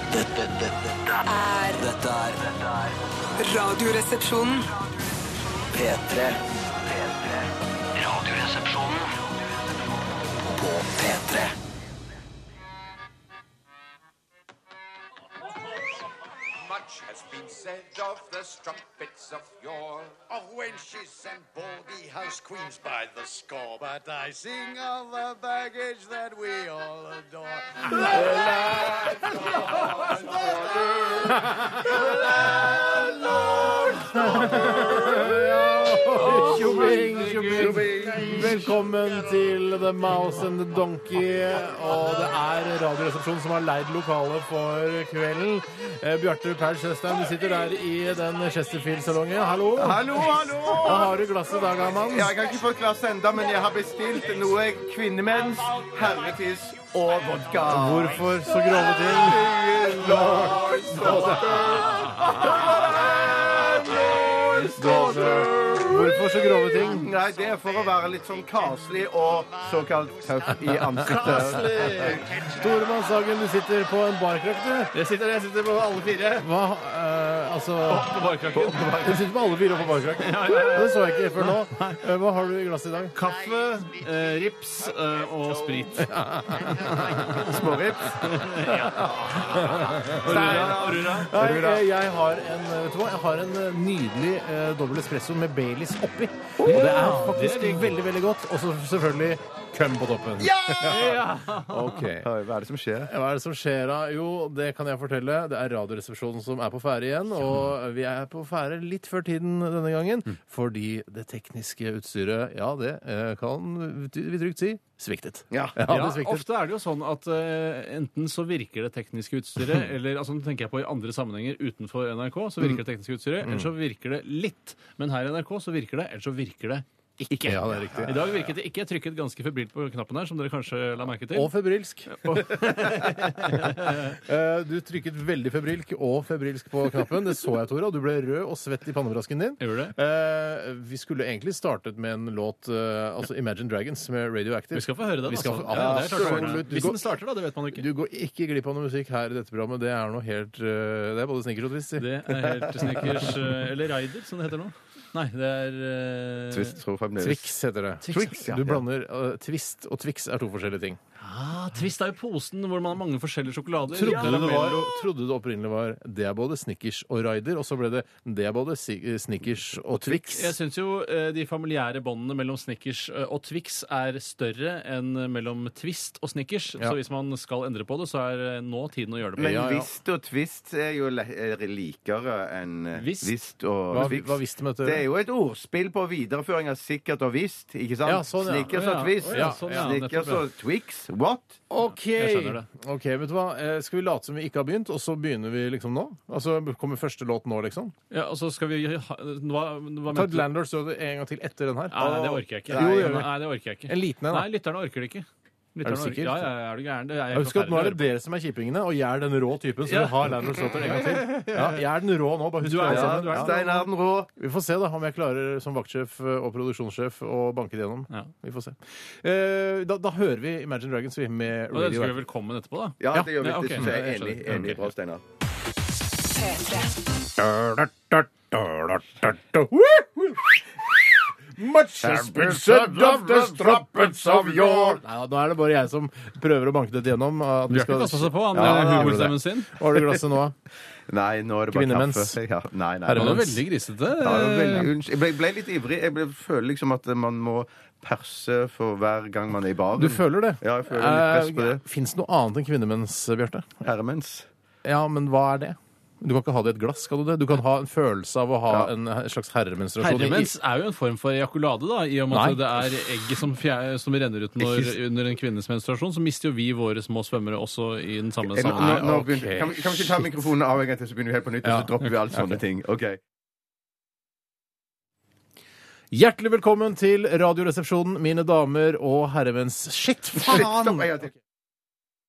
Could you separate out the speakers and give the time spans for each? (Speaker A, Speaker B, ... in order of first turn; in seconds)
Speaker A: 0.1-1.2, 1.8-3.0, 5.7-9.1, 10.3-11.5
Speaker B: 1.2-1.8, 3.4-4.7, 226.2-227.0
Speaker C: 16.6-34.0, 50.1-51.1, 53.4-54.5, 55.2-64.6, 67.0-70.9, 71.6-72.9, 83.2-87.5
Speaker D: 28.0-28.9, 30.3-31.4, 31.9-34.9, 37.5-38.7, 49.7-51.2, 52.1-72.2, 87.3-88.4, 90.2-91.8, 96.7-96.9, 100.4-100.9, 102.0-103.1, 115.5-115.8, 145.7-146.6, 156.5-157.5, 158.1-158.8, 179.4-191.6, 202.0-203.2, 212.8-214.3, 223.0-225.2, 232.0-235.0, 238.5-239.3, 241.1-243.5, 244.2-251.8, 253.8-254.5, 264.6-264.9, 268.6-273.2, 280.4-281.3
Speaker E: 31.3-31.8, 34.0-52.4, 57.6-62.4, 64.7-67.1, 70.7-74.9, 76.4-78.2, 78.9-83.2, 86.0-86.9, 88.7-102.3, 103.0-116.4, 123.4-123.7, 127.4-128.3, 131.3-147.0, 147.7-152.3, 152.8-153.3, 157.2-161.0, 163.9-170.6, 179.4-179.9, 183.9-185.0, 188.0-189.8, 191.7-197.9, 200.1-202.0, 202.7-203.3, 203.8-204.5, 205.8-206.5, 207.3-213.6, 214.3-222.2, 223.1-224.8, 227.4-240.6, 241.7-242.4, 243.1-243.6, 249.9-253.8, 254.8-260.5, 262.3-262.9, 268.7-270.2, 271.6-272.6, 276.1-281.3
Speaker F: 36.1-37.9, 71.0-72.2, 74.9-76.5, 77.8-79.3, 80.1-82.0, 83.1-91.3, 96.6-98.0, 100.8-101.9, 115.9-131.5, 132.1-134.2, 139.6-139.9, 144.7-147.8, 152.0-156.8, 161.2-164.9, 169.9-179.6, 183.0-183.3, 188.7-190.4, 191.8-192.7, 198.1-200.5, 201.9-208.0, 209.8-211.8, 212.6-213.8, 221.7-224.9, 237.7-239.8, 243.2-244.9, 260.0-269.2